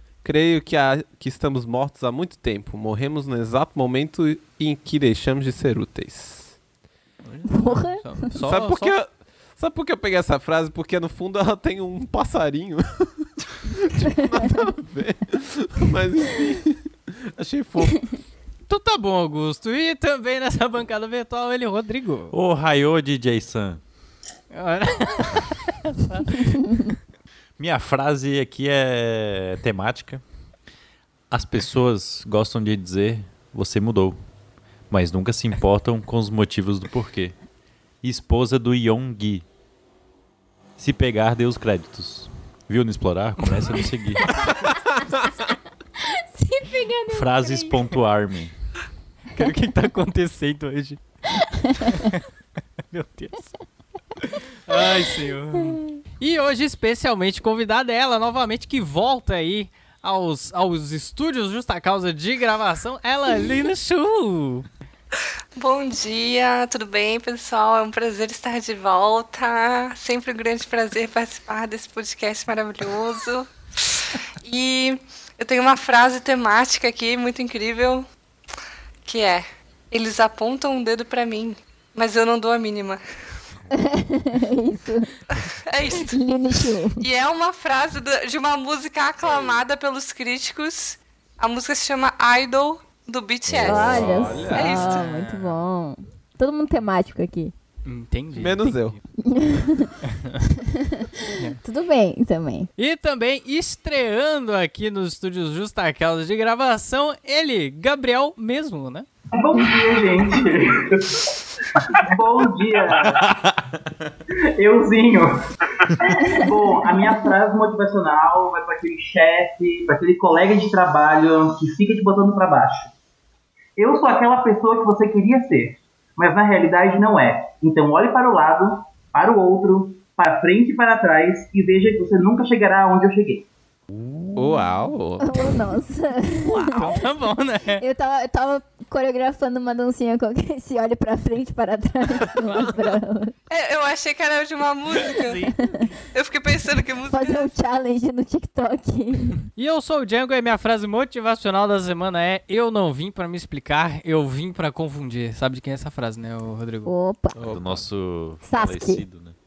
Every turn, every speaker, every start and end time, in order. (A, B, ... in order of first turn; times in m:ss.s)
0:00.2-0:06.5 A
0:07.2-0:09.0 B
0:07.5-0:08.0 C
0:08.4-0:18.2 A
0:18.7-0:22.3 B
0:22.3-0:23.8 D
0:24.5-0:26.9 B
0:27.6-0:30.2 D
0:31.3-0:34.2 D
0:34.9-0:37.4 D
0:38.0-0:39.4 D
0:40.8-0:44.2 D
0:46.1-0:47.7 C
0:47.1-0:48.5 D
0:49.3-0:51.0 B
0:51.5-0:52.0 C
0:52.9-0:53.5 B
0:54.2-1:04.6 B
0:55.6-0:56.0 C
1:05.6-1:18.1 E
1:19.0-1:23.0 E
1:23.7-1:25.1 C
1:25.7-1:26.1 E
1:26.0-1:27.0 C
1:27.0-1:35.0 E
1:33.5-1:34.8 D
1:33.6-1:37.5 C
1:34.6-1:35.6 B
1:37.8-1:39.0 B
1:38.3-1:39.0 A
1:39.2-1:39.9 C
1:40.1-1:40.4 B
1:40.7-1:42.7 C
1:42.8-1:49.1 B
1:49.3-1:51.2 F
1:51.9-1:53.2 F
1:53.0-1:53.8 D
1:54.6-1:55.3 F
1:56.2-2:02.9 F
2:03.8-2:13.5 F
2:14.3-2:15.5 A
2:15.2-2:16.9 C
2:16.4-2:17.0 A
2:16.7-2:17.8 B
2:17.8-2:23.3 C
2:23.5-2:25.4 E
2:26.1-2:27.5 E
2:27.1-2:29.4 C
2:29.6-2:36.9 B
2:36.8-2:37.4 C
2:37.4-2:37.9 A
2:37.4-2:39.3 D
2:38.4-2:39.0 C